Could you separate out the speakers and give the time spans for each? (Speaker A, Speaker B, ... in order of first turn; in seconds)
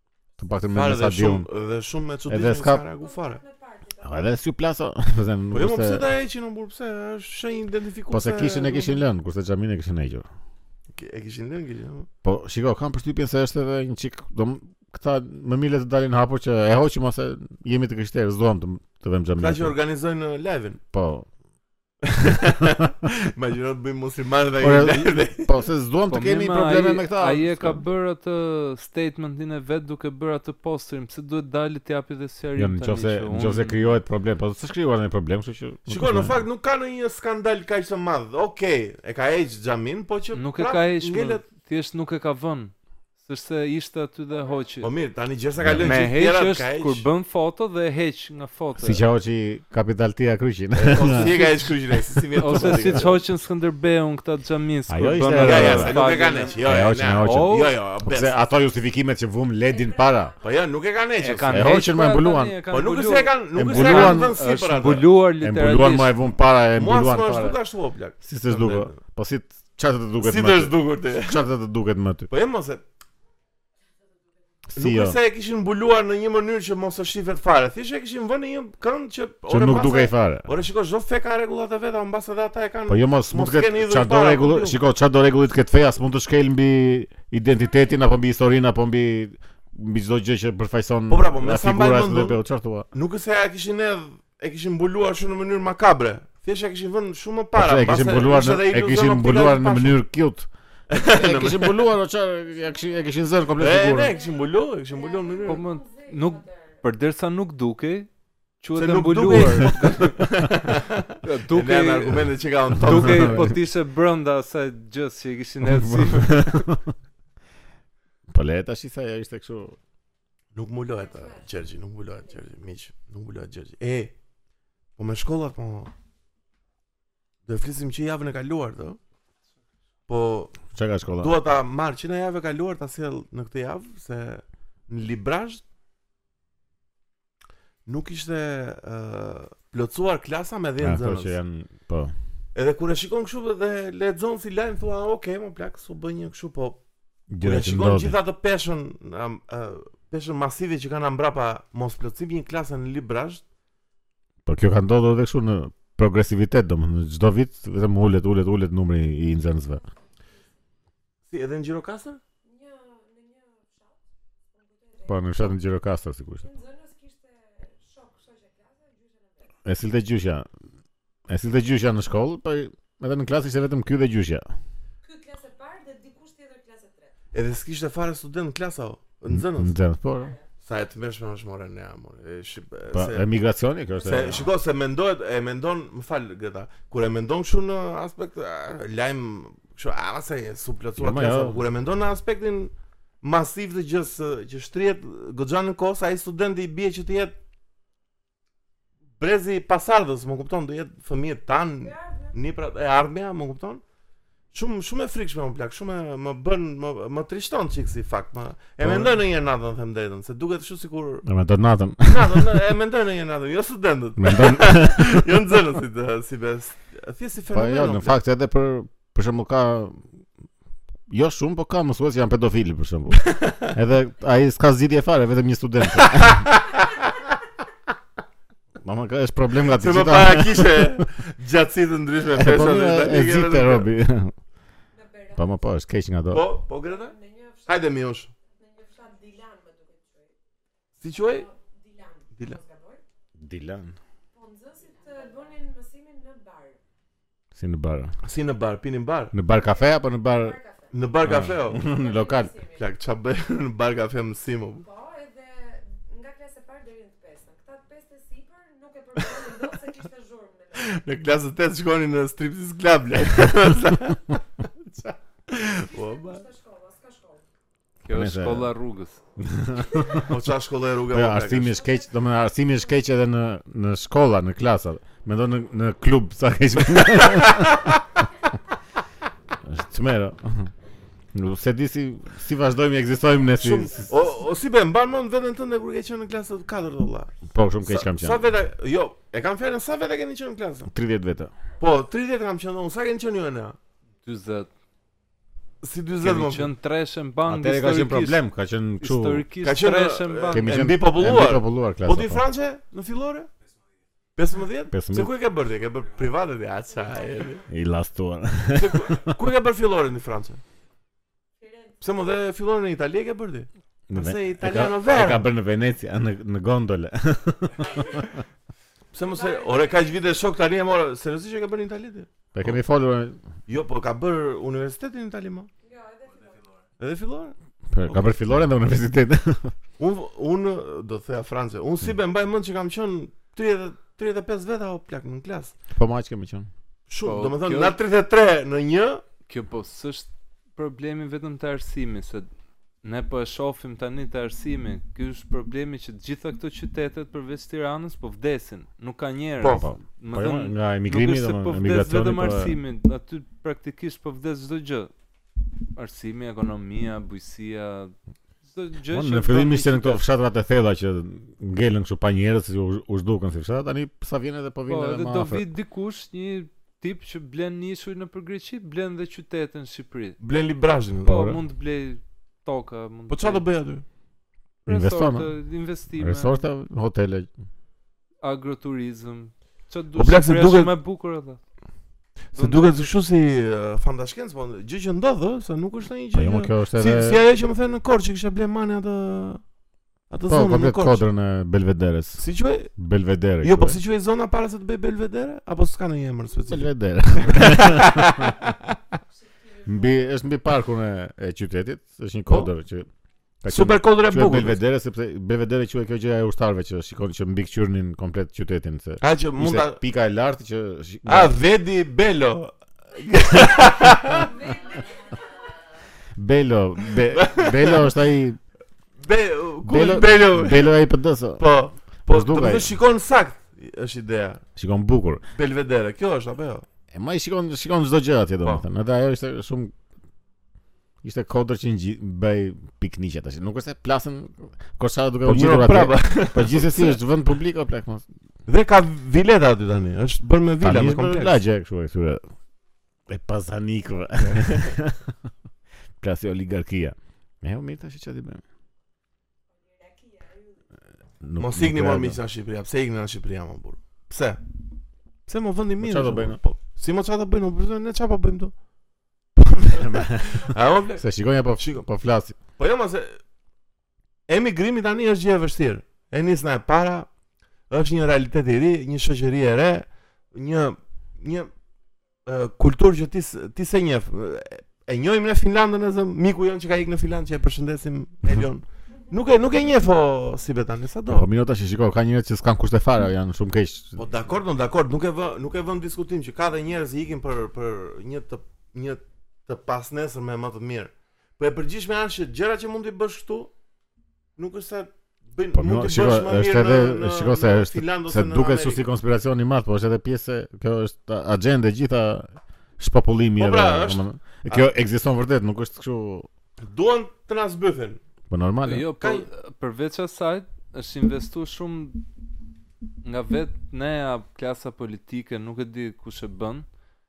Speaker A: 0.4-1.5, 2.3-2.8, 4.0-6.0, 8.1-10.3, 12.2-19.8, 20.9-21.3, 24.6-27.8, 32.6-36.4, 45.6-46.0, 48.8-51.6, 52.5-53.0, 54.9-56.0, 56.6-60.3, 61.5-62.6, 63.5-64.4, 65.4-67.6, 68.2-72.3, 74.7-75.2, 79.5-80.5, 82.9-92.9, 97.5-104.2, 112.8-113.5, 115.7-116.9, 118.3-119.8, 130.7-131.3, 140.8-142.1, 147.3-148.2, 154.5-159.8, 165.1-166.5, 169.7-170.5, 171.3-174.5, 179.3-180.4, 182.9-184.5, 191.0-191.6, 208.8-209.2, 211.3-212.5, 214.2-215.3, 217.5-220.0, 221.1-226.5, 228.8-231.1, 232.4-234.3, 235.4-236.4, 243.4-244.0, 247.6-248.2, 249.3-250.6, 251.2-252.5, 268.1-268.7, 269.4-270.3, 271.1-277.9, 279.6-280.7, 281.3-284.1, 287.5-288.4, 290.9-291.5, 297.5-299.4, 300.5-302.4, 304.9-305.3, 307.7-309.3, 314.1-318.3, 322.5-323.4, 327.9-329.7, 335.9-336.7, 349.7-352.8, 359.1-365.6, 371.3-371.6, 374.9-375.5, 376.2-377.5, 386.3-387.4, 390.5-392.4, 393.0-394.0, 396.7-398.6, 399.9-403.1, 403.6-411.6, 416.4-418.6, 419.9-421.6, 422.3-422.9, 424.8-425.4, 427.1-429.9, 431.2-438.2, 440.8-442.4, 443.3-445.3, 446.2-448.6, 451.4-452.4, 456.0-456.6, 459.9-462.6, 481.3-484.2, 495.8-506.5, 508.5-509.1
Speaker B: 0.7-3.4, 5.5-9.0, 10.9-12.1, 19.4-20.8, 22.0-25.6, 35.9-41.4, 44.8-47.1, 50.7-53.2, 55.4-58.3, 60.4-61.8, 62.7-65.1, 66.8-69.0, 70.2-71.5, 72.3-72.8, 74.8-84.8, 91.1-92.4, 92.9-100.0, 100.9-101.9, 103.6-105.7, 108.8-113.5, 120.5-124.1, 125.0-125.9, 127.5-129.0, 130.1-130.6, 131.2-135.6, 137.9-141.3, 142.6-146.8, 147.4-153.4, 161.3-162.2, 177.3-179.7, 180.6-183.2, 184.1-197.3, 199.2-203.8, 204.5-211.3, 212.0-218.2, 223.2-223.7, 226.0-226.7, 229.7-233.9, 236.3-237.2, 237.7-238.3, 241.0-241.5, 248.2-249.3, 250.9-251.8, 252.8-254.8, 260.8-266.4, 270.3-271.8, 277.4-277.7, 283.6-290.9, 291.8-293.8, 295.8-296.7, 299.6-303.5, 304.4-307.6, 308.7-310.6, 312.0-315.5, 319.1-322.8, 323.7-325.7, 327.0-327.6, 330.0-335.8, 337.1-339.2, 349.6-349.9, 370.4-371.4, 373.3-374.0, 380.1-380.9, 382.5-389.6, 390.3-391.2, 392.4-392.9, 393.6-398.8, 403.7-404.8, 409.2-410.0, 411.3-414.6, 417.3-418.1, 419.2-421.0, 421.6-424.6, 425.5-426.9, 435.4-437.2, 438.7-441.6, 444.4-444.9, 451.6-454.6, 455.5-458.7, 459.6-461.2, 461.8-462.1, 462.8-463.4, 464.5-467.3, 467.9-471.7, 472.5-481.5, 484.2-493.7, 494.6-499.0, 503.6-504.9, 506.8-508.2, 509.2-509.5
Speaker C: 3.0-4.2, 44.3-44.7, 56.0-56.9, 59.7-60.7, 102.5-106.8, 121.0-121.6, 159.5-160.4, 162.4-165.6, 166.4-169.5, 175.0-177.1, 180.1-180.5, 183.9-184.5, 201.8-202.3, 234.9-235.7, 236.8-237.9, 238.4-240.3, 241.1-243.0, 244.3-246.8, 249.5-251.0, 251.7-252.9, 254.8-261.0, 265.8-267.4, 269.9-270.2, 271.6-272.9, 306.9-307.6, 311.6-312.1, 317.9-318.2, 319.3-320.3, 325.8-326.6, 399.3-400.3, 414.3-415.8, 449.7-450.8
Speaker D: 26.1-34.0, 40.3-44.9, 45.8-49.0, 52.4-57.8, 61.2-66.1, 105.5-108.1, 108.6-110.2, 111.2-116.6, 268.1-269.2, 294.2-294.7, 296.2-298.4, 299.0-300.7, 337.2-338.0, 339.5-342.5, 343.0-355.1, 355.9-358.1, 358.7-360.2, 364.9-370.4, 371.2-373.6, 374.9-376.6, 378.4-381.6, 382.6-383.1, 508.8-512.2, 513.2-516.9